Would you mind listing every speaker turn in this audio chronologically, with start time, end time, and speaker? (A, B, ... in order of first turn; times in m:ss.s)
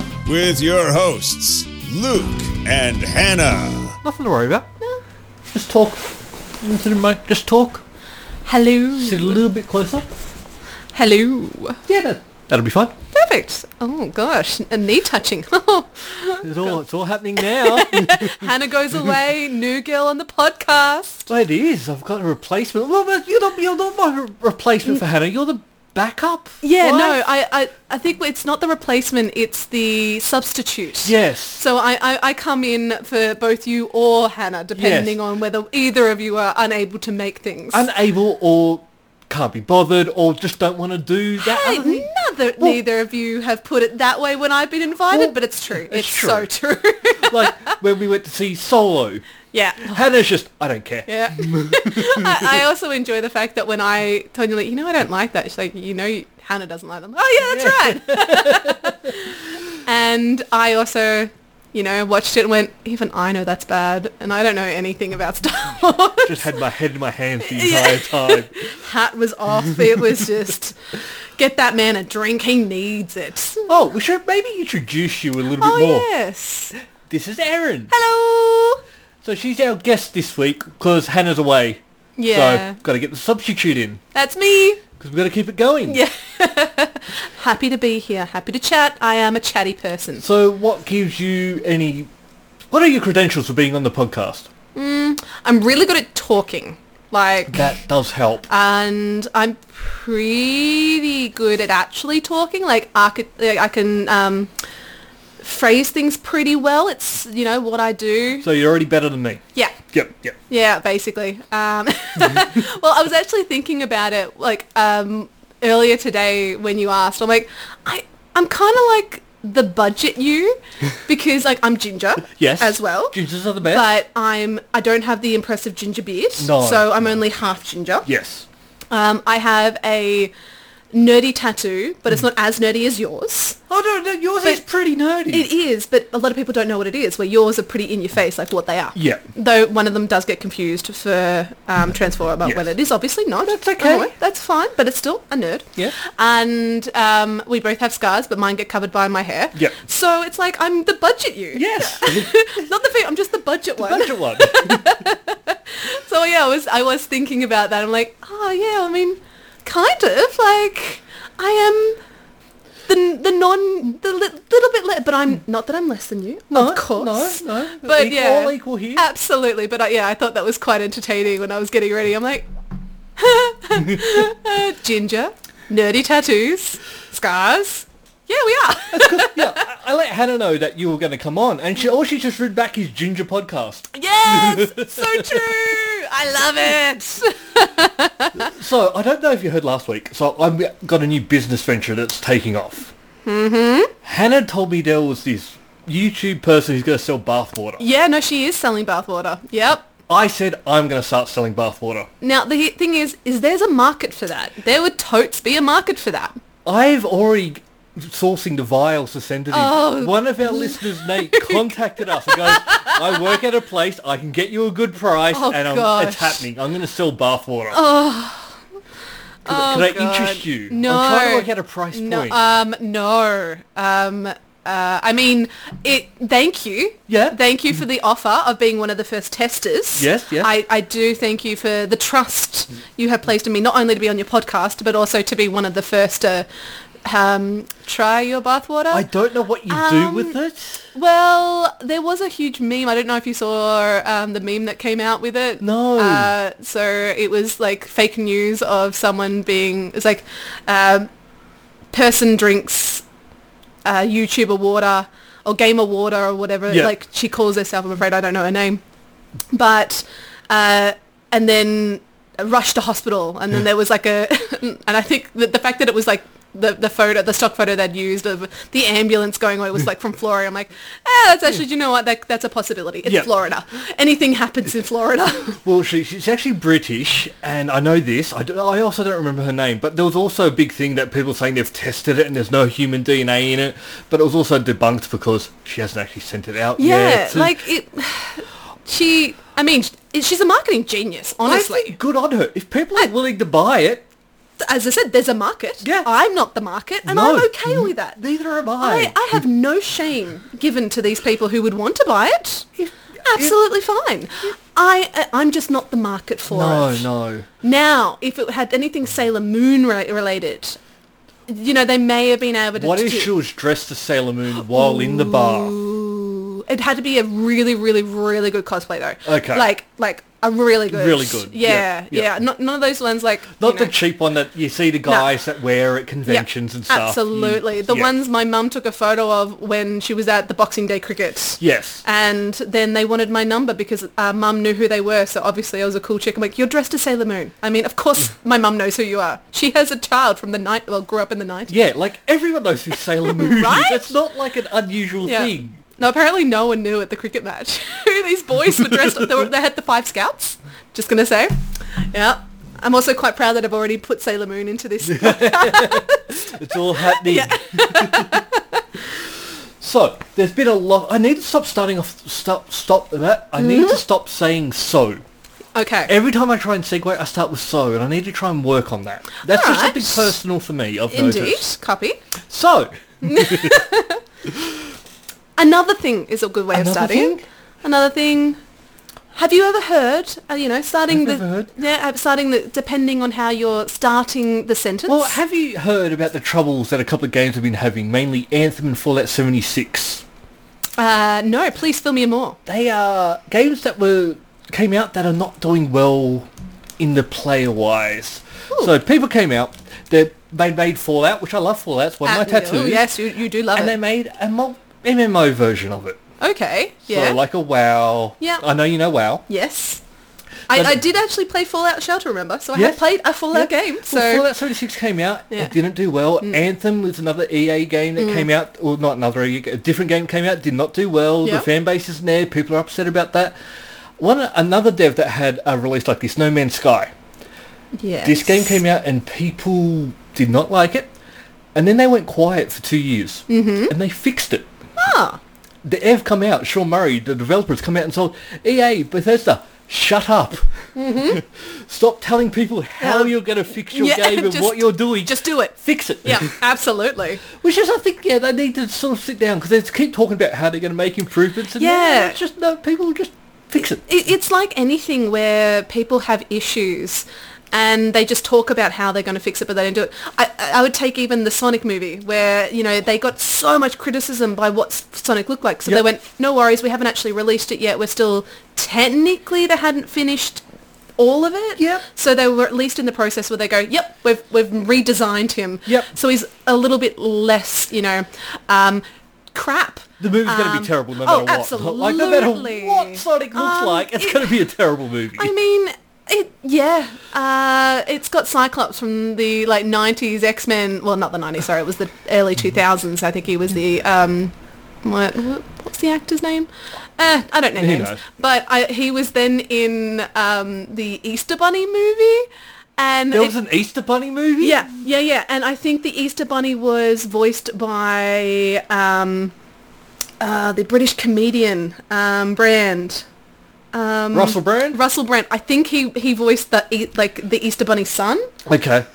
0:00.2-0:04.0 A
0:04.0-0:04.7 B
0:05.5-0:07.8 B
0:08.4-0:09.4 C
0:08.9-0:10.0 B
0:10.9-0:11.8 C
0:11.9-0:12.9 B
0:13.1-0:16.8 C
0:16.4-0:19.1 B
0:17.4-0:21.3 C
0:21.3-0:27.3 B
0:26.6-0:37.9 C
0:31.0-0:31.6 B
0:34.7-0:35.2 B
0:37.7-0:42.8 B
0:41.4-0:47.7 C
0:45.1-0:46.5 B
0:47.3-0:49.2 B
0:49.5-0:50.0 C
0:49.8-0:52.6 B
0:51.1-1:06.6 C
0:57.4-0:58.9 B
1:06.2-1:08.6 B
1:07.4-1:13.7 C
1:13.7-1:16.1 B
1:15.6-1:16.8 C
1:17.0-1:17.9 B
1:17.9-1:18.8 C
1:19.2-1:24.0 B
1:22.2-1:22.8 C
1:24.1-1:24.8 C
1:25.0-1:26.0 B
1:25.9-1:30.2 C
1:30.2-1:32.1 B
1:32.7-1:34.5 B
1:34.7-1:37.7 C
1:37.5-1:38.5 B
1:38.5-1:44.5 C
1:45.4-1:48.5 C
1:48.4-1:50.4 B
1:50.5-2:08.1 C
2:02.2-2:04.0 B
2:06.4-2:07.2 B
2:08.0-2:08.4 B
2:08.9-2:10.3 C
2:10.9-2:13.6 C
2:13.7-2:15.5 B
2:15.3-2:42.0 C
2:18.9-2:19.2 B
2:22.4-2:22.7 B
2:23.4-2:24.1 B
2:31.5-2:32.7 B
2:33.8-2:34.9 B
2:42.9-2:52.5 C
2:46.5-2:49.0 B
2:53.2-2:59.6 C
2:58.9-3:05.7 B
3:03.9-3:08.5 C
3:08.3-3:12.9 B
3:13.2-3:13.9 C
3:14.0-3:17.8 B
3:17.8-3:19.8 C
3:20.1-3:22.1 B
3:22.2-3:26.3 C
3:26.6-3:37.8 B
3:29.5-3:33.4 C
3:35.3-3:36.5 C
3:37.7-3:38.6 C
3:39.4-3:56.5 C
3:39.4-3:42.4 B
3:47.1-3:47.4 B
3:50.0-3:50.5 B
3:57.0-3:59.1 C
3:58.9-4:00.8 B
3:59.7-4:00.4 C
4:00.9-4:11.1 C
4:05.6-4:06.3 B
4:11.9-4:13.0 C
4:13.8-4:18.8 C
4:16.7-4:16.9 B
4:19.5-4:35.6 C
4:33.0-4:33.3 B
4:35.6-4:47.6 B
4:46.8-4:52.0 C
4:51.4-4:54.0 B
4:54.6-4:58.2 C
4:55.8-4:56.1 B
4:57.0-4:59.4 B
4:58.8-5:02.7 C
5:02.8-5:03.6 B
5:03.2-5:07.1 C
5:06.5-5:07.4 B
5:07.6-5:10.8 C
5:11.5-5:13.3 C
5:12.7-5:15.8 B
5:14.7-5:23.9 C
5:19.2-5:19.6 B
5:20.9-5:22.4 B
5:23.6-5:28.1 B
5:25.0-5:25.4 C
5:26.2-5:41.8 C
5:31.6-5:32.0 B
5:41.7-5:45.8 B
5:43.2-5:44.1 C
5:45.2-5:58.8 C
5:48.8-5:49.3 B
5:55.0-5:58.4 B
5:59.8-6:05.2 B
6:03.6-6:04.0 C
6:05.7-6:06.1 C
6:06.1-6:11.6 B
6:09.4-6:10.4 C
6:11.1-6:12.2 C
6:12.5-6:13.8 B
6:13.2-6:14.2 C
6:15.6-6:18.6 C
6:16.7-6:17.4 B
6:19.3-6:25.4 C
6:21.1-6:21.7 B
6:25.1-6:30.2 B
6:31.0-6:32.6 C
6:32.7-6:43.1 B
6:42.2-6:44.0 C
6:43.7-6:46.2 B
6:46.4-6:47.4 C
6:47.0-6:49.4 B
6:48.4-6:48.7 C
6:49.5-6:50.0 C
6:50.7-6:54.5 C
6:50.7-6:51.0 B
6:52.7-7:03.6 B
6:55.5-6:55.8 C
6:58.2-6:58.5 C
7:04.2-7:07.1 B
7:08.0-7:08.8 C
7:08.2-7:11.1 B
7:11.7-7:14.7 B
7:13.5-7:13.9 C
7:15.0-7:15.4 C
7:15.8-7:20.6 B
7:20.9-7:21.4 C
7:21.2-7:26.6 B
7:23.0-7:27.4 C
7:27.6-7:34.0 B
7:31.8-7:32.4 C
7:34.0-7:50.6 C
7:51.2-8:04.6 C
7:51.8-7:52.0 B
7:55.8-7:56.1 B
8:00.2-8:05.5 B
8:05.4-8:23.5 C
8:17.8-8:18.2 B
8:23.3-8:24.9 B
8:24.6-8:29.5 C
8:30.4-8:33.2 C
8:33.9-8:38.5 C
8:34.3-8:35.0 B
8:38.6-8:39.1 B